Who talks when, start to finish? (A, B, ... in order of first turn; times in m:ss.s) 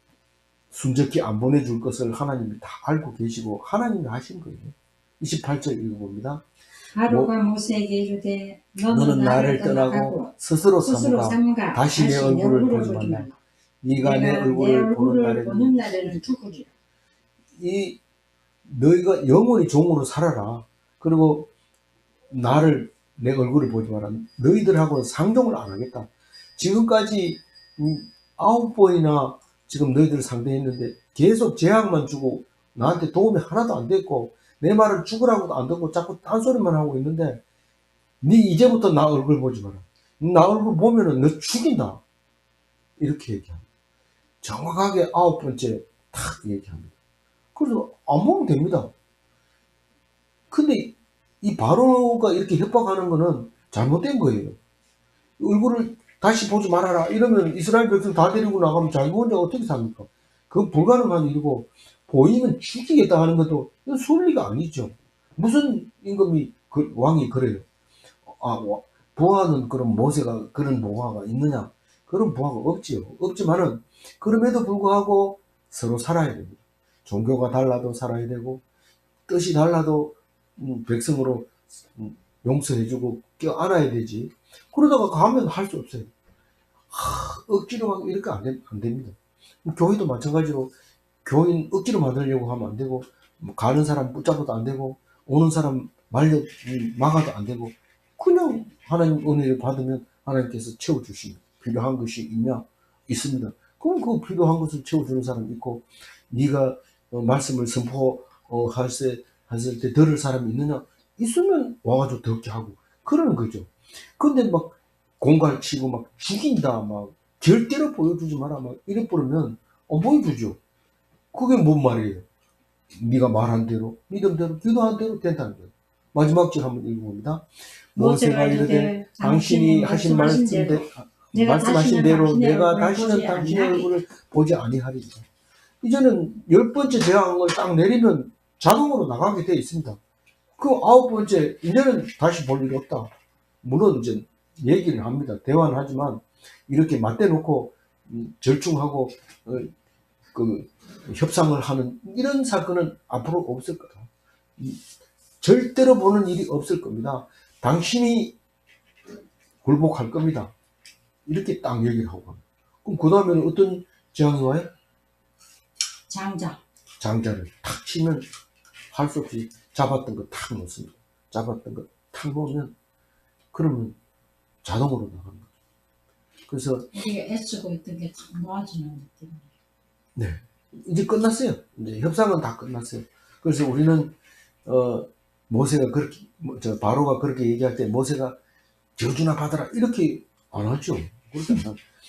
0:00.7-0:06.4 A
0:07.0-0:13.4 B
0:07.1-0:07.3 A
0:08.9-0:13.3 A
0:13.8-0:16.2 A
0:14.0-0:16.7 B
0:17.6-0:18.0 A
0:18.6-0:21.5 A
0:22.3-0:37.4 A
0:38.2-0:42.0 A
0:43.0-0:43.6 A
0:44.4-0:46.9 A
0:47.5-0:48.9 A
0:50.5-0:54.6 A
0:55.4-1:07.7 A
1:08.3-1:18.6 A
1:19.3-1:26.1 A
1:26.9-1:30.7 A
1:31.2-2:00.6 A
2:01.3-2:02.2 A
2:03.0-2:15.3 A
2:08.0-2:13.9 B
2:15.8-2:20.0 A
2:20.6-2:23.1 A
2:23.6-2:29.7 A
2:30.3-2:34.8 A
2:35.4-2:38.4 A
2:39.6-2:40.5 A
2:41.3-2:44.7 A
2:46.1-2:46.6 B
2:47.0-2:48.3 A
2:48.9-2:52.8 A
2:53.5-2:54.0 A
2:54.6-2:55.5 A
2:56.5-2:56.9 A
2:56.9-2:59.5 B
3:00.2-3:08.4 A
3:09.0-3:11.8 A